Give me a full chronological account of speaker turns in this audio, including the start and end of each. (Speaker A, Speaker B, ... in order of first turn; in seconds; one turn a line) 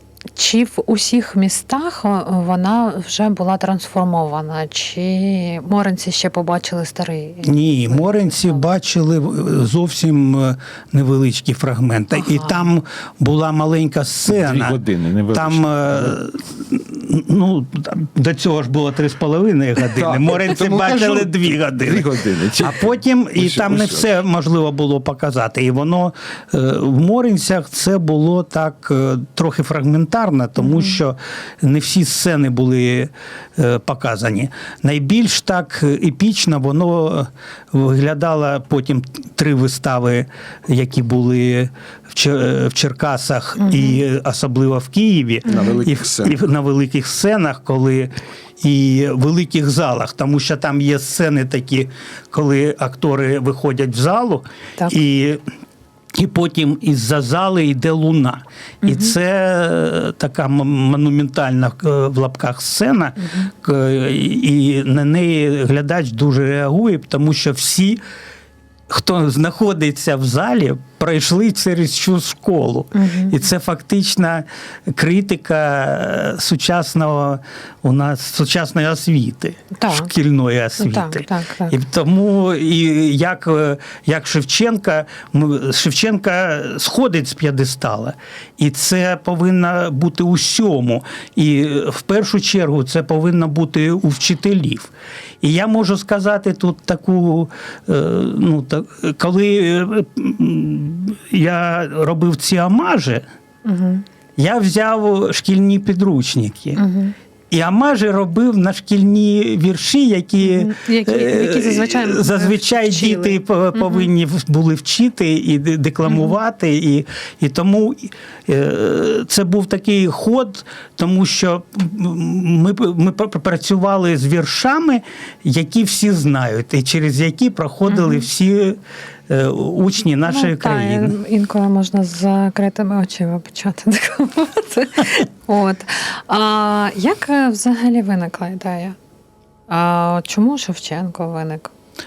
Speaker A: 0.4-8.6
Speaker B: 7.4-14.8
Speaker A: 12.2-12.6
Speaker C: 14.3-16.2
Speaker B: 15.3-55.4
Speaker C: 20.0-24.1
Speaker A: 30.7-31.0
Speaker A: 43.6-44.0
Speaker C: 45.5-46.4
Speaker B: 56.1-68.0
Speaker A: 58.8-59.1
Speaker A: 63.2-63.5
Speaker B: 68.9-103.2
Speaker A: 73.0-73.4
Speaker A: 79.8-80.1
Speaker A: 80.8-81.8
Speaker A: 103.7-104.0
Speaker B: 104.4-106.8
Speaker A: 106.8-107.2
Speaker B: 107.5-131.2
Speaker A: 110.4-114.1
Speaker A: 116.1-116.3
Speaker A: 127.9-128.2
Speaker A: 130.3-139.0
Speaker A: 139.7-141.7